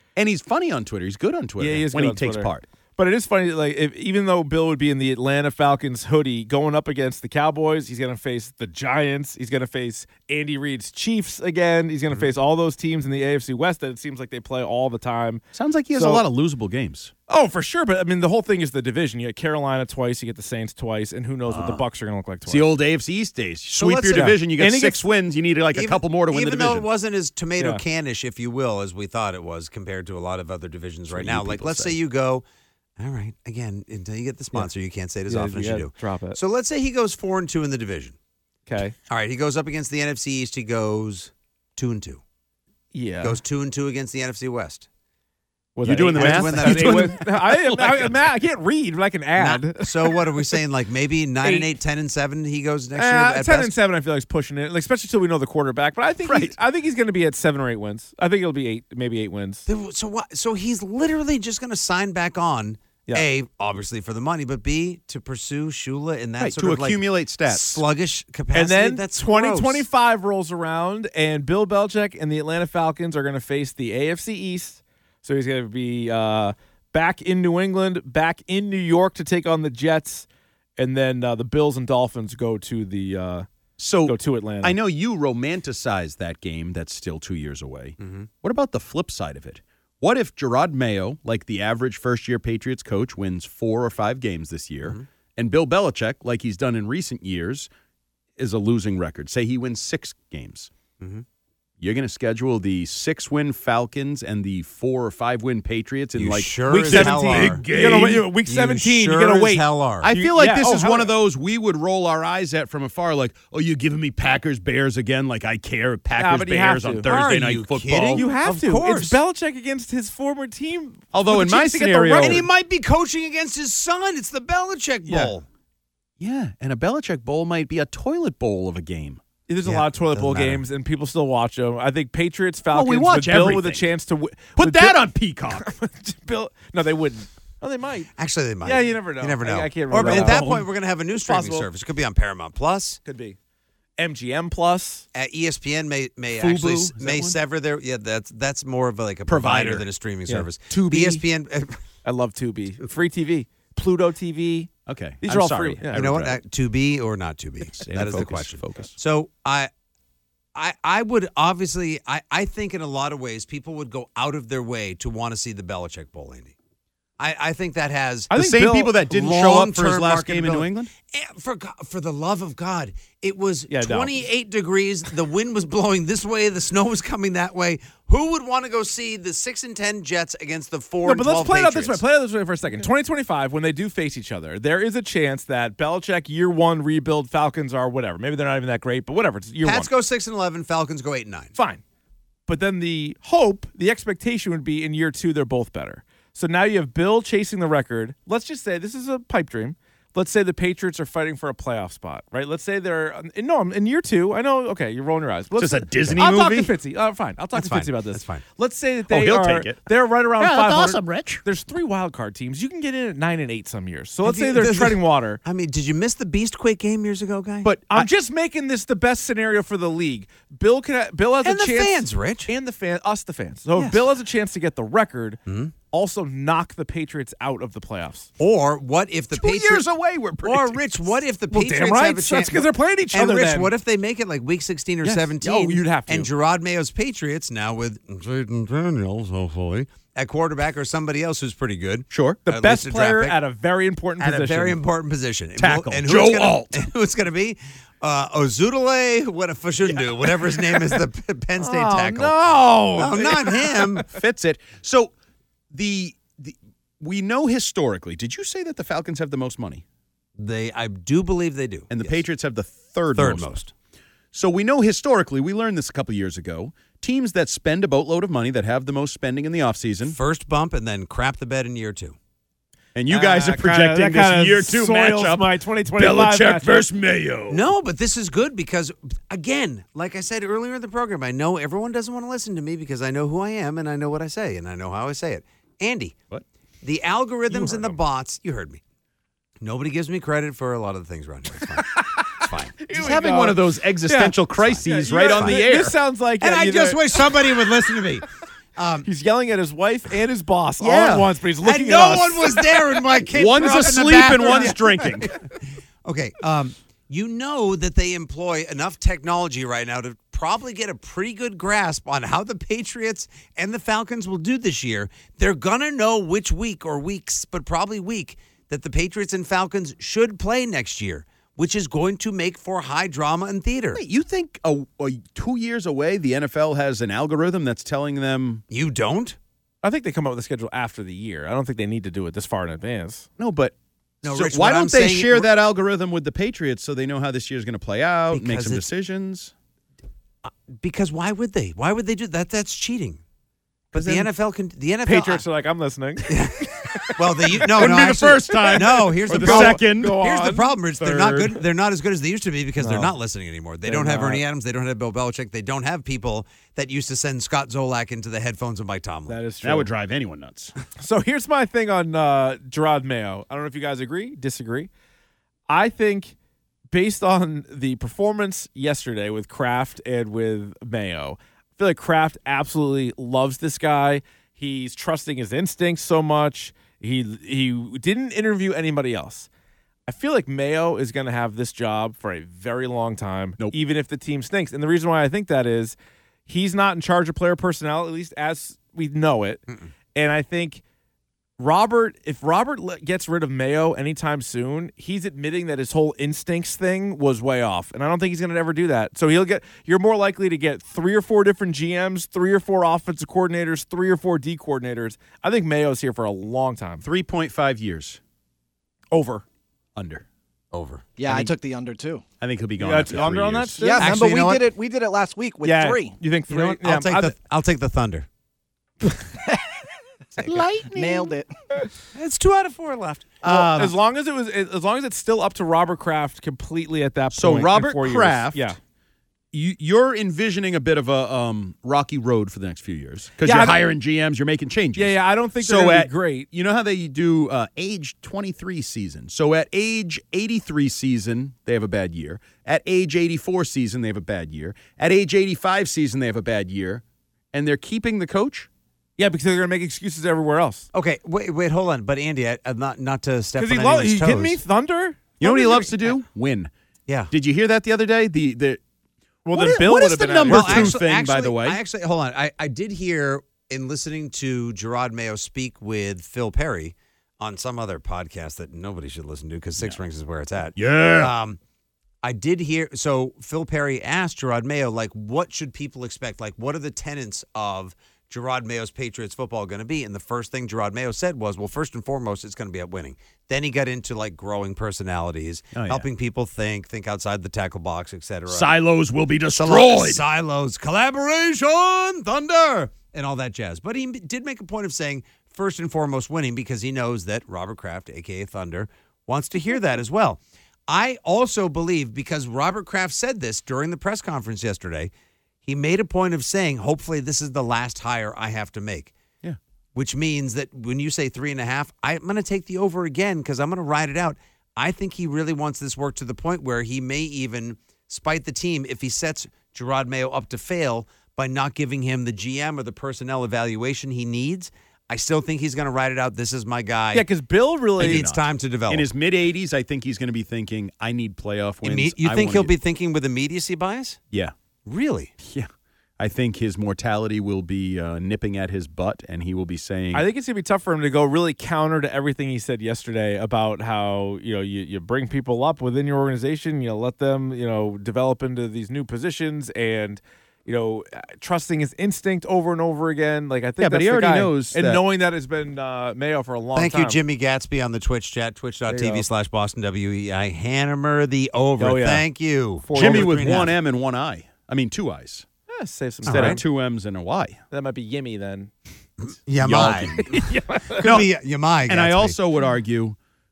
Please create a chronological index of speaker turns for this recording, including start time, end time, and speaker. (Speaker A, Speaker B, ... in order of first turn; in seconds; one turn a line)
Speaker A: 0.1-2.7
Speaker B: 1.6-15.4
Speaker A: 15.5-17.1
Speaker B: 15.9-16.2
Speaker B: 17.3-22.7
Speaker A: 21.5-21.8
Speaker A: 22.5-26.9
Speaker C: 23.8-24.4
Speaker B: 24.1-25.1
Speaker C: 25.7-32.4
Speaker B: 27.6-27.8
Speaker A: 31.1-32.0
Speaker C: 33.0-38.2
Speaker B: 35.3-36.4
Speaker B: 38.7-39.0
Speaker C: 39.1-42.2
Speaker B: 42.9-43.4
Speaker C: 43.2-44.9
Speaker B: 45.8-50.2
Speaker A: 45.8-48.1
Speaker C: 46.1-48.1
Speaker C: 49.4-53.7
Speaker B: 51.4-51.7
Speaker B: 53.0-59.6
Speaker A: 56.2-56.6
Speaker C: 59.7-69.9
Speaker A: 66.4-67.8
Speaker B: 68.5-80.3
Speaker B: 80.8-83.5
Speaker A: 83.8-97.7
Speaker B: 84.0-84.8
Speaker C: 88.0-88.3
Speaker A: 98.4-100.7
Speaker A: 101.8-108.3
Speaker C: 106.2-110.1
Speaker B: 106.7-111.1
Speaker A: 110.0-118.3
Speaker B: 116.2-117.1
Speaker C: 117.1-119.2
Speaker B: 118.1-122.5
Speaker A: 121.1-122.5
Speaker C: 122.2-125.5
Speaker B: 125.1-125.3
Speaker A: 126.2-129.2
Speaker B: 129.5-138.1
Speaker C: 129.7-130.6
Speaker A: 132.7-133.9
Speaker A: 134.6-135.7
Speaker C: 138.2-143.0
Speaker B: 138.6-140.5
Speaker A: 139.9-140.7
Speaker B: 141.2-141.7
Speaker B: 143.1-143.4
Speaker B: 144.0-145.1
Speaker C: 145.1-151.8
Speaker A: 146.4-147.4
Speaker A: 149.3-149.9
Speaker B: 150.3-151.2
Speaker B: 152.1-154.7
Speaker A: 154.9-156.4
Speaker B: 155.2-156.0
Speaker C: 155.9-159.7
Speaker A: 157.8-159.0
Speaker C: 160.6-166.6
Speaker C: 167.2-168.3
Speaker B: 168.3-168.9
Speaker A: 168.3-170.9
Speaker C: 169.1-182.0
Speaker B: 173.7-174.2
Speaker B: 181.1-189.9
Speaker C: 189.6-191.5
Speaker B: 191.6-191.8
Speaker B: 192.5-215.4
Speaker A: 205.6-206.7
Speaker C: 207.5-208.4
Speaker A: 209.1-209.8
Speaker A: 210.4-211.4
Speaker C: 214.2-217.7
Speaker A: 217.6-218.1
Speaker B: 217.9-225.4
Speaker C: 221.4-222.5
Speaker C: 225.5-225.7
Speaker B: 225.9-228.3
Speaker C: 228.4-229.9
Speaker A: 229.3-231.0
Speaker C: 230.4-243.4
Speaker B: 231.5-233.7
Speaker B: 235.0-236.3
Speaker A: 242.1-242.4
Speaker B: 242.5-244.8
Speaker C: 244.2-252.4
Speaker A: 245.6-246.9
Speaker B: 251.6-254.1
Speaker C: 253.0-254.1
Speaker A: 254.1-255.1
Speaker A: 255.7-259.8
Speaker C: 260.4-262.2
Speaker A: 261.9-263.5
Speaker C: 263.1-263.7
Speaker A: 264.3-270.2
Speaker C: 270.1-272.2
Speaker A: 272.9-277.7
Speaker B: 273.1-276.9
Speaker C: 277.5-286.2
Speaker C: 286.8-288.8
Speaker A: 287.5-287.9
Speaker C: 289.6-292.9
Speaker B: 291.9-297.2
Speaker A: 292.9-296.0
Speaker C: 296.4-299.1
Speaker B: 299.1-302.6
Speaker A: 300.8-301.3
Speaker C: 301.6-305.4
Speaker A: 303.3-305.3
Speaker C: 306.1-324.0
Speaker A: 323.9-328.6
Speaker C: 328.7-329.4
Speaker B: 329.8-333.3
Speaker A: 333.4-339.5
Speaker C: 334.2-335.5
Speaker C: 338.3-338.9
Speaker C: 340.4-343.2
Speaker C: 343.9-345.4
Speaker B: 343.9-344.3
Speaker B: 345.1-347.2
Speaker C: 346.3-359.4
Speaker A: 347.7-350.2
Speaker B: 348.5-350.8
Speaker A: 351.0-351.5
Speaker B: 352.8-353.1
Speaker B: 353.9-354.4
Speaker B: 359.3-359.9
Speaker A: 359.6-360.7
Speaker B: 361.0-364.9
Speaker B: 365.7-366.3
Speaker B: 366.9-379.5
Speaker B: 380.1-386.0
Speaker B: 386.5-389.6
Speaker B: 390.1-390.8
Speaker B: 391.6-407.1
Speaker A: 407.0-408.2
Speaker B: 409.1-409.4
Speaker A: 409.9-410.2
Speaker C: 410.7-411.1
Speaker D: 411.2-412.2
Speaker A: 411.3-411.5
Speaker A: 412.4-414.0
Speaker B: 412.8-414.0
Speaker D: 413.8-416.2
Speaker C: 414.0-414.6
Speaker B: 415.6-417.3
Speaker C: 416.5-418.3
Speaker A: 420.5-421.4
Speaker D: 420.5-421.5
Speaker C: 422.1-423.9
Speaker A: 423.4-423.9
Speaker B: 423.5-428.8
Speaker A: 427.3-428.8
Speaker A: 429.5-448.7
Speaker B: 433.4-433.9
Speaker B: 434.9-436.5
Speaker B: 449.2-450.9
Speaker C: 450.9-454.6
Speaker B: 453.6-455.9
Speaker A: 455.4-456.7
Speaker A: 457.3-458.8
Speaker B: 459.4-461.0
Speaker A: 459.5-461.8
Speaker C: 460.4-471.6
Speaker A: 470.8-471.3
Speaker C: 472.2-488.7
Speaker A: 485.7-486.1
Speaker A: 488.5-490.2
Speaker C: 489.5-505.1
Speaker C: 505.7-509.1
Speaker C: 509.9-527.3
Speaker B: 527.1-528.2
Speaker C: 528.0-529.1
Speaker A: 528.0-532.7
Speaker C: 531.8-534.2
Speaker C: 534.9-535.3
Speaker A: 535.4-540.3
Speaker B: 540.1-557.2
Speaker A: 553.8-555.0
Speaker C: 556.8-563.7
Speaker B: 558.9-559.2
Speaker B: 561.8-562.2
Speaker B: 562.8-563.7
Speaker A: 563.0-565.5
Speaker B: 565.7-566.6
Speaker C: 566.2-566.6
Speaker A: 566.3-567.6
Speaker B: 567.7-568.7
Speaker C: 569.2-570.3
Speaker A: 569.6-570.4
Speaker B: 570.3-571.1
Speaker C: 570.9-572.4
Speaker A: 571.0-571.3
Speaker A: 571.9-573.2